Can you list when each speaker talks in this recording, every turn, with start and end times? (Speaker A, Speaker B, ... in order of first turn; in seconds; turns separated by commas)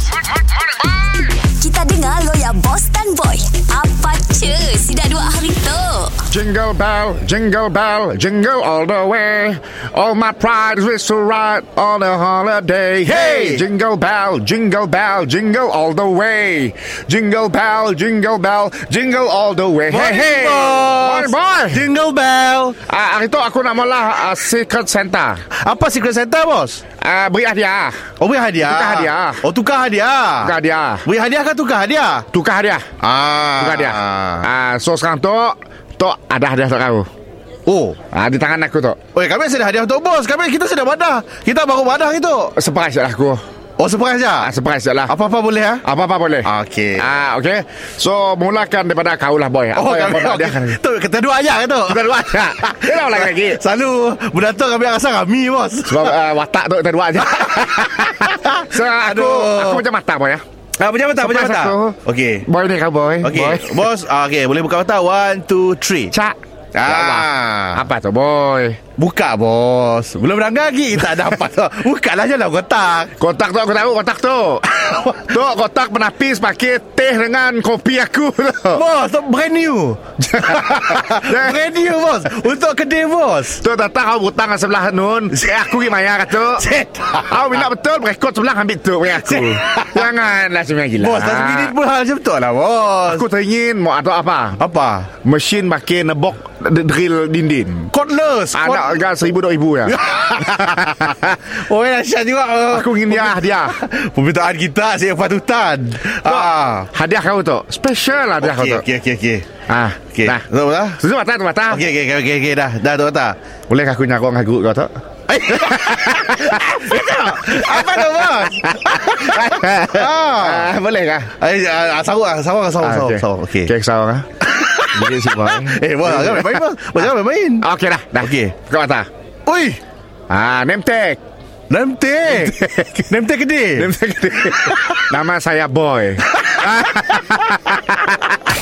Speaker A: 1.1-6.2, Speaker B: 6.3-21.9, Speaker C: 13.1-13.7, Speaker C: 19.9-22.8, Speaker B: 22.9-25.4, Speaker C: 25.6-26.8, Speaker B: 27.0-28.0, Speaker C: 28.2-32.3, Speaker B: 28.6-29.4, Speaker B: 30.4-31.1, Speaker B: 32.3-32.9, Speaker C: 33.0-34.5, Speaker B: 33.6-37.1, Speaker C: 37.7-38.0, Speaker B: 38.1-39.0, Speaker C: 39.1-42.5, Speaker B: 42.5-43.4, Speaker C: 43.8-44.5, Speaker B: 44.4-45.2, Speaker C: 45.1-45.9, Speaker B: 45.8-50.8, Speaker C: 46.4-47.1, Speaker C: 49.8-56.2, Speaker B: 51.9-53.6, Speaker B: 55.9-60.4, Speaker C: 57.3-59.8, Speaker C: 60.8-62.5, Speaker B: 61.2-63.9, Speaker C: 63.2-66.1, Speaker B: 66.1-68.8, Speaker C: 66.8-67.8, Speaker C: 69.0-73.1, Speaker B: 73.2-78.8, Speaker C: 74.8-75.2, Speaker C: 78.7-83.6, Speaker B: 80.3-81.6, Speaker B: 83.6-86.7, Speaker C: 86.6-87.3, Speaker B: 87.2-91.8, Speaker C: 89.2-90.0, Speaker C: 91.0-93.2, Speaker B: 93.1-94.6, Speaker C: 94.6-95.1, Speaker B: 95.2-97.9, Speaker C: 97.9-99.0, Speaker B: 98.5-101.2, Speaker C: 99.9-106.9, Speaker B: 102.7-103.8, Speaker B: 106.2-108.8, Speaker C: 108.4-109.5, Speaker B: 109.7-110.5, Speaker C: 110.1-111.0, Speaker B: 111.0-111.8, Speaker C: 111.7-113.4, Speaker B: 113.7-114.9, Speaker C: 115.3-120.7, Speaker B: 115.5-121.3, Speaker C: 121.4-123.7, Speaker B: 122.8-124.3, Speaker C: 124.4-127.7, Speaker B: 124.9-127.0, Speaker B: 127.6-129.1, Speaker C: 128.2-128.6, Speaker C: 129.5-129.8, Speaker B: 130.3-131.2, Speaker C: 131.7-132.6, Speaker B: 132.3-133.1, Speaker C: 133.1-133.9, Speaker B: 133.8-138.4, Speaker C: 134.6-135.1, Speaker C: 136.4-137.4